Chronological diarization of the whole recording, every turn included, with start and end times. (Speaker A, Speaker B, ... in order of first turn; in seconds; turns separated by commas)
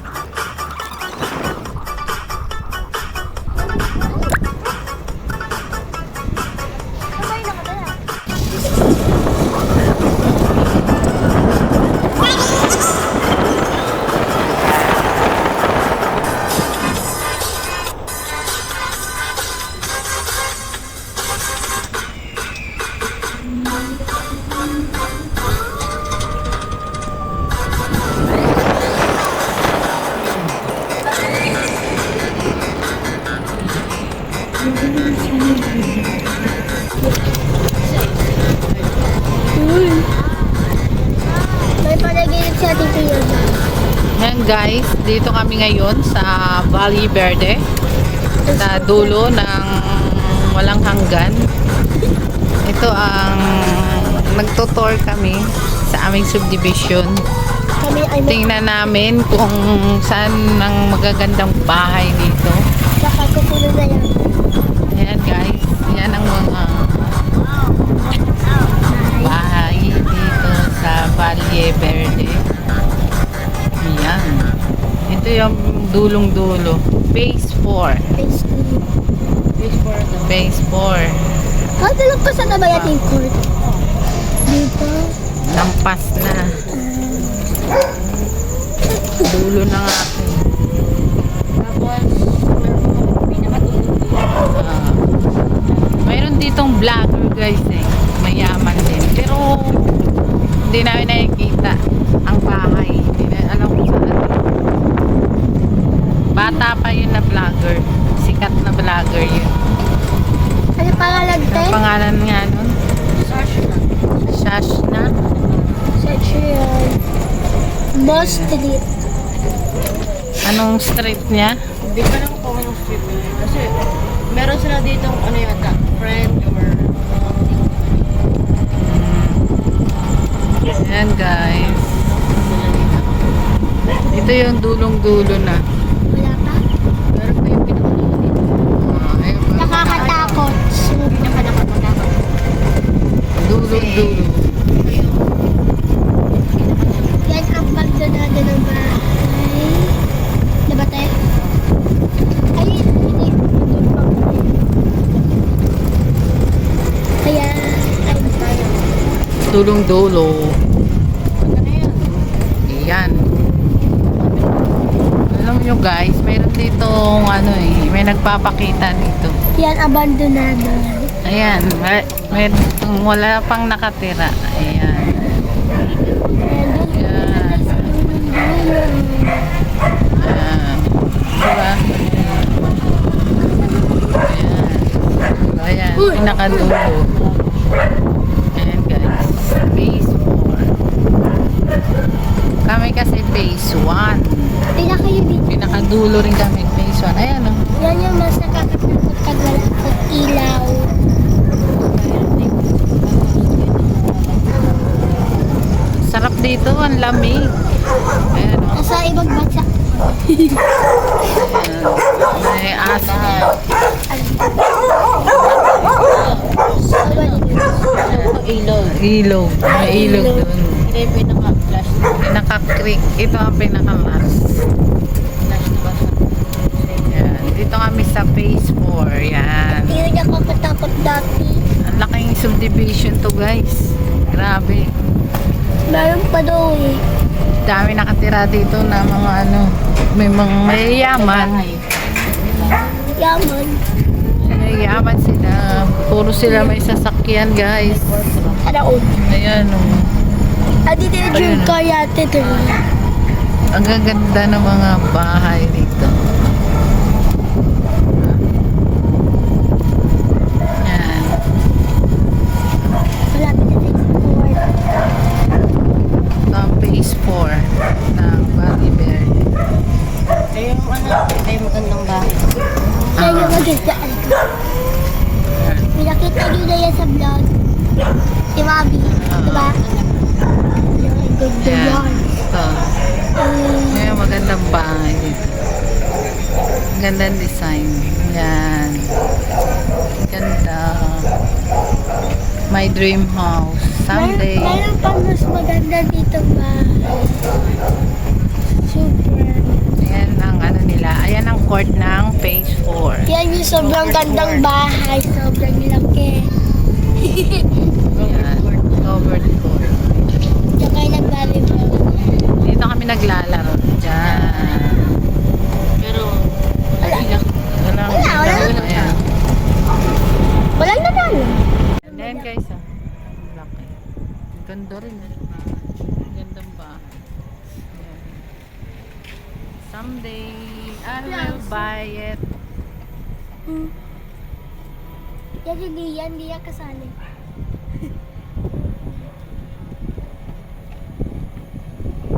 Speaker A: 7.2-7.9, Speaker B: 35.1-35.8, Speaker C: 37.8-39.3, Speaker A: 39.5-40.1, Speaker A: 41.8-43.6, Speaker B: 44.2-47.6, Speaker A: 48.4-49.3, Speaker B: 48.6-51.4, Speaker B: 52.7-57.1, Speaker A: 57.8-58.6, Speaker B: 58.2-62.6, Speaker A: 63.0-64.2, Speaker B: 64.9-67.1, Speaker A: 68.9-69.4, Speaker B: 69.2-72.3, Speaker B: 73.8-74.5, Speaker B: 75.1-78.0, Speaker A: 78.2-78.8, Speaker C: 79.6-80.5, Speaker B: 80.2-81.1, Speaker A: 81.8-83.4, Speaker B: 82.5-83.0, Speaker C: 83.5-83.9, Speaker A: 84.5-85.1, Speaker B: 85.5-86.4, Speaker A: 86.7-87.5, Speaker B: 89.2-90.4, Speaker C: 91.5-94.5, Speaker B: 94.5-95.0, Speaker C: 95.7-96.0, Speaker B: 96.0-99.9, Speaker B: 100.7-101.8, Speaker B: 102.3-104.4, Speaker B: 106.3-109.5, Speaker A: 106.3-106.7, Speaker A: 110.8-111.8, Speaker C: 110.9-111.4, Speaker B: 111.5-112.7, Speaker C: 113.1-114.3, Speaker B: 114.2-115.1, Speaker C: 115.2-116.0, Speaker A: 116.0-117.0, Speaker A: 117.9-118.8, Speaker B: 118.0-118.6, Speaker B: 120.5-121.5, Speaker C: 121.8-123.7, Speaker C: 124.3-128.1, Speaker B: 128.8-129.4, Speaker B: 130.8-131.8, Speaker C: 131.7-133.5, Speaker B: 134.1-135.6, Speaker A: 136.1-136.6, Speaker C: 137.1-138.7, Speaker B: 138.8-140.4, Speaker A: 139.6-141.3, Speaker C: 139.6-140.4, Speaker C: 141.0-142.2, Speaker B: 143.4-144.4, Speaker C: 143.7-145.3, Speaker C: 146.5-147.3, Speaker A: 147.2-149.9, Speaker A: 150.7-151.1, Speaker C: 151.4-151.7, Speaker A: 152.5-154.6, Speaker A: 157.2-158.4, Speaker C: 158.0-159.0, Speaker B: 159.5-160.5, Speaker C: 161.3-162.6, Speaker B: 162.7-163.2, Speaker B: 165.3-169.3, Speaker A: 169.6-171.1, Speaker B: 171.2-175.2, Speaker C: 171.3-172.7, Speaker C: 175.8-176.4, Speaker A: 176.4-179.5, Speaker B: 176.9-177.8, Speaker B: 180.2-182.6, Speaker A: 183.6-183.9, Speaker B: 184.2-187.0, Speaker C: 186.0-187.6, Speaker B: 188.5-190.7, Speaker B: 192.7-194.2, Speaker A: 194.8-195.9, Speaker B: 195.5-197.6, Speaker A: 197.8-200.9, Speaker C: 201.7-205.3, Speaker B: 206.0-207.4, Speaker B: 208.3-208.9, Speaker A: 208.7-210.6, Speaker B: 211.3-213.5, Speaker C: 212.1-213.5, Speaker A: 214.1-215.1, Speaker B: 215.3-216.1, Speaker C: 215.5-219.0, Speaker A: 217.0-217.8, Speaker B: 218.0-220.7, Speaker A: 219.7-220.5, Speaker C: 220.8-222.3, Speaker B: 222.2-224.6, Speaker C: 225.4-227.3, Speaker B: 227.0-229.9, Speaker A: 229.9-231.6, Speaker B: 231.9-234.8, Speaker A: 235.9-237.0, Speaker B: 237.7-241.6, Speaker C: 240.6-243.4, Speaker A: 243.2-243.8, Speaker C: 244.2-245.0, Speaker B: 244.4-248.2, Speaker A: 246.4-246.8, Speaker C: 247.9-248.6, Speaker A: 248.6-249.3, Speaker B: 249.3-250.0, Speaker A: 250.8-252.8, Speaker B: 251.3-251.8, Speaker B: 252.4-252.7, Speaker B: 253.8-256.1, Speaker B: 258.2-258.5, Speaker B: 260.8-261.4, Speaker A: 263.3-264.7, Speaker B: 266.5-267.6, Speaker B: 268.1-269.4, Speaker C: 270.5-273.7, Speaker B: 273.1-273.6, Speaker A: 273.1-274.4, Speaker B: 275.6-275.9, Speaker A: 275.9-277.5, Speaker A: 278.5-279.8, Speaker B: 279.1-279.8, Speaker C: 279.8-280.2, Speaker A: 280.9-282.2, Speaker B: 281.6-282.7, Speaker A: 283.4-284.4, Speaker B: 283.9-285.6, Speaker B: 286.9-289.0, Speaker B: 290.2-291.2, Speaker B: 292.7-294.8, Speaker A: 294.1-297.4, Speaker A: 298.8-299.8, Speaker B: 300.0-303.3, Speaker A: 303.3-306.5, Speaker C: 303.6-304.7, Speaker A: 307.2-307.7, Speaker C: 308.1-309.3, Speaker B: 308.1-310.0, Speaker A: 310.8-312.5, Speaker B: 312.6-315.0, Speaker C: 314.2-314.7, Speaker C: 316.0-316.4, Speaker C: 317.0-317.6, Speaker A: 317.0-317.3, Speaker B: 317.7-319.2, Speaker A: 318.1-318.8, Speaker C: 318.5-319.2, Speaker A: 320.8-322.5, Speaker B: 322.0-323.9, Speaker B: 324.6-325.4, Speaker B: 326.2-327.1, Speaker B: 327.9-328.5, Speaker B: 329.9-332.4, Speaker A: 331.2-331.9, Speaker A: 333.7-333.9, Speaker A: 335.6-337.1